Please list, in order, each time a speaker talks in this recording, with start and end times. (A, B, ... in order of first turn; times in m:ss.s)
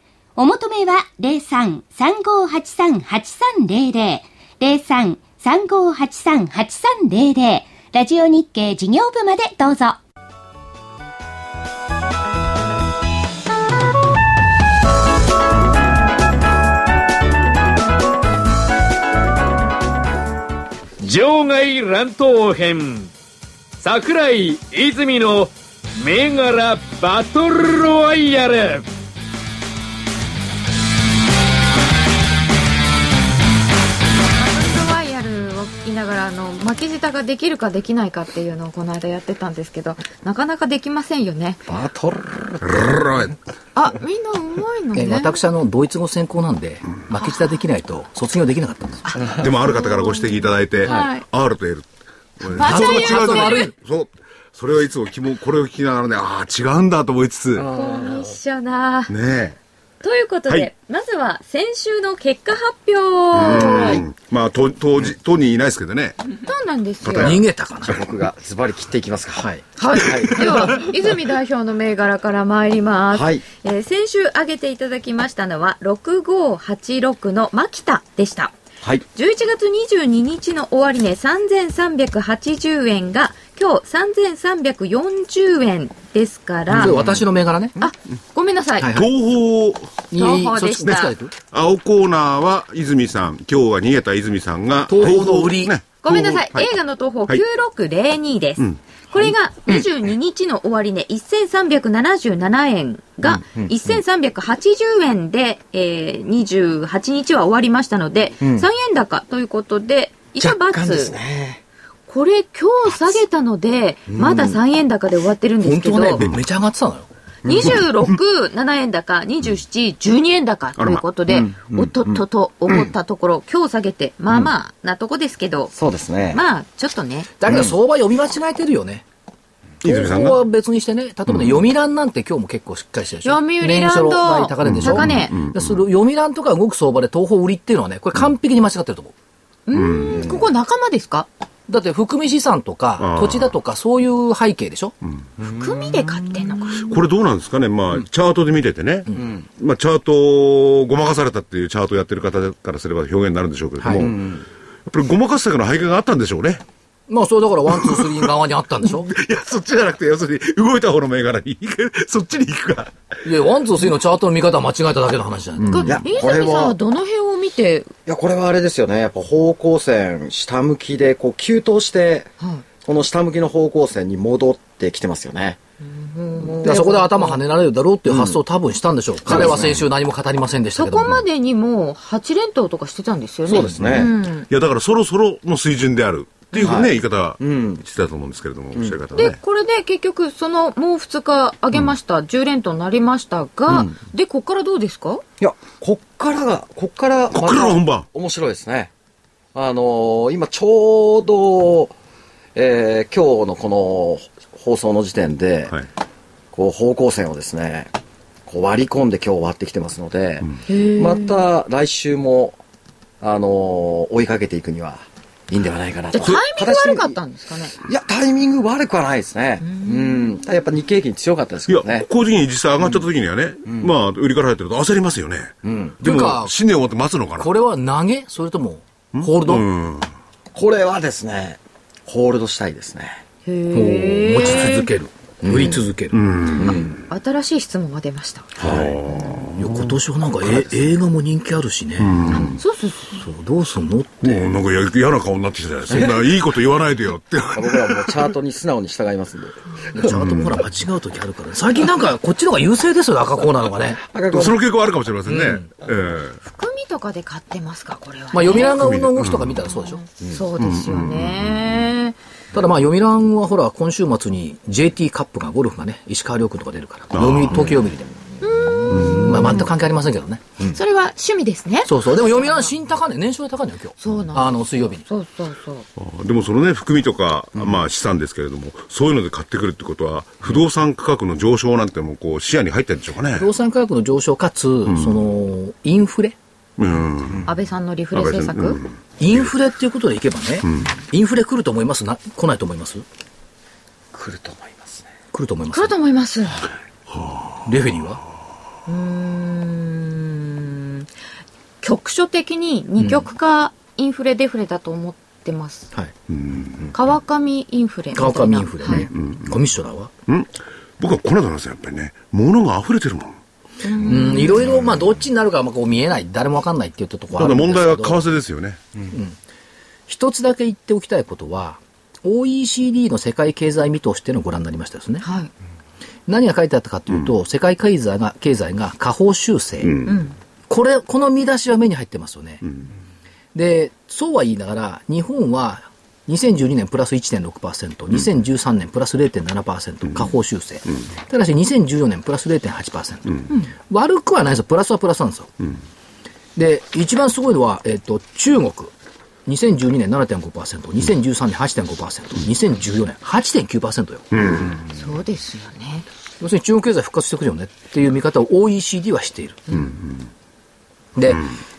0:00.4-0:10.0 A
0:21.0-0:23.1 B
0:23.8-0:28.9 B
0:34.2-0:41.6 C
0:41.7-0:43.0 D
0:42.6-0:43.4 E
0:43.8-0:45.4 C
0:45.0-0:49.1 F
0:49.1-0:51.2 C
0:49.4-0:51.9 E
0:52.4-0:57.7 E
0:52.5-0:53.7 C
0:52.6-0:53.7 F
0:57.6-0:58.3 D
0:57.7-0:59.1 C
0:59.1-0:59.6 E
1:00.0-1:04.0 C
1:03.3-1:06.2 E
1:06.4-1:07.4 C
1:07.0-1:07.4 E
1:07.1-1:08.0 F
1:07.9-1:10.9 D
1:09.4-1:09.6 F
1:09.8-1:18.5 C
1:13.1-1:13.4 D
1:19.1-1:27.0 C
1:26.7-1:27.8 F
1:26.8-1:27.2 D
1:27.8-1:28.9 C
1:28.8-1:29.1 F
1:28.9-1:30.0 E
1:30.1-1:31.3 F
1:30.2-1:31.1 C
1:31.4-1:36.7 E
1:34.9-1:35.8 F
1:36.0-1:51.2 C
1:43.4-1:43.8 D
1:48.4-1:48.7 D
1:50.4-1:51.6 D
1:52.1-1:56.2 C
1:54.1-1:54.6 D
1:55.6-1:57.1 F
1:57.4-2:05.7 C
2:00.8-2:01.0 E
2:01.3-2:02.8 D
2:05.7-2:06.4 D
2:06.3-2:07.3 C
2:07.4-2:09.0 F
2:07.5-2:07.7 D
2:09.8-2:10.4 E
2:09.8-2:19.1 F
2:13.2-2:15.4 C
2:14.6-2:15.8 E
2:19.7-2:21.3 C
2:19.7-2:20.4 E
2:21.7-2:25.0 F
2:23.0-2:23.5 E
2:25.4-2:26.0 D
2:25.5-2:27.0 C
2:26.8-2:34.2 E
2:29.2-2:29.5 D
2:33.8-2:34.1 F
2:34.0-2:34.4 D
2:34.9-2:36.6 E
2:37.1-2:39.1 F
2:37.8-2:38.0 E
2:39.0-2:43.0 E
2:43.2-2:46.0 F
2:45.7-2:47.9 C
2:45.8-2:46.8 D
2:48.1-2:52.3 D
2:52.8-2:55.6 D
2:55.8-2:57.4 C
2:56.6-3:01.2 F
2:58.1-2:58.4 D
2:59.2-2:59.8 D
3:00.8-3:04.5 C
3:03.5-3:04.1 D
3:03.7-3:09.4 E
3:06.5-3:06.8 C
3:06.6-3:07.8 D
3:09.1-3:15.2 C
3:15.4-3:18.9 D
3:17.3-3:18.1 E
3:19.5-3:22.0 D
3:22.6-3:25.8 D
3:26.5-3:27.9 D
3:28.5-3:32.6 D
3:30.7-3:31.4 C
3:33.2-3:37.2 D
3:36.1-3:37.8 C
3:37.8-3:42.1 D
3:39.6-3:40.3 C
3:41.7-3:47.5 E
3:43.7-3:43.9 D
3:45.6-3:46.0 D
3:46.0-3:46.5 F
3:47.4-3:49.7 F
3:49.1-3:50.1 E
3:50.5-3:53.2 D
3:53.5-3:54.9 C
3:53.7-3:56.2 F
3:55.4-3:55.8 D
3:56.1-3:56.9 E
3:56.5-3:56.9 D
3:57.1-3:58.5 C
3:58.6-3:59.0 D
3:58.6-3:59.9 E
3:59.5-4:02.3 F
4:00.4-4:00.9 D
4:02.0-4:02.6 E
4:02.3-4:03.2 C
4:03.2-4:04.5 F
4:04.2-4:08.2 E
4:05.9-4:06.2 D
4:07.5-4:10.1 D
4:09.9-4:14.0 F
4:10.1-4:10.4 E
4:14.0-4:14.6 D
4:14.3-4:16.4 E
4:15.3-4:15.7 F
4:16.4-4:18.8 C
4:18.3-4:20.0 F
4:18.7-4:19.6 E
4:19.6-4:22.2 C
4:20.6-4:21.8 E
4:22.5-4:28.1 F
4:27.1-4:27.8 E
4:28.4-4:29.7 C
4:28.9-4:29.4 E
4:29.1-4:30.5 F
4:30.7-4:32.7 C
4:31.8-4:35.0 F
4:34.0-4:35.9 C
4:36.0-4:43.5 E
4:43.4-4:46.4 F
4:44.9-4:45.2 E
4:46.8-4:47.4 E
4:47.5-4:48.8 C
4:48.1-4:48.9 E
4:49.2-4:53.0 F
4:54.1-4:55.1 D
4:55.3-4:56.0 F
4:55.7-4:56.7 C
4:57.1-4:57.5 E
4:57.7-4:58.2 F
4:58.9-5:01.1 C
5:01.8-5:05.9 C
5:03.0-5:03.3 F
5:06.3-5:06.9 E
5:06.9-5:09.1 C
5:08.1-5:10.1 F
5:09.1-5:09.4 E
5:10.3-5:13.4 E
5:13.8-5:14.7 C
5:14.1-5:18.2 F
5:17.4-5:18.8 E
5:19.1-5:19.4 F
5:20.1-5:25.2 F
5:25.2-5:25.5 C
5:26.3-5:30.0 F
5:29.9-5:30.2 E
5:30.0-5:30.4 C
5:30.7-5:32.6 F
5:33.5-5:45.5 F
5:46.6-5:48.9 F
5:49.5-5:54.3 F
5:54.3-5:54.8 E
5:54.9-5:56.1 C
5:56.4-5:59.7 F
5:59.7-6:00.2 E
6:01.2-6:01.5 F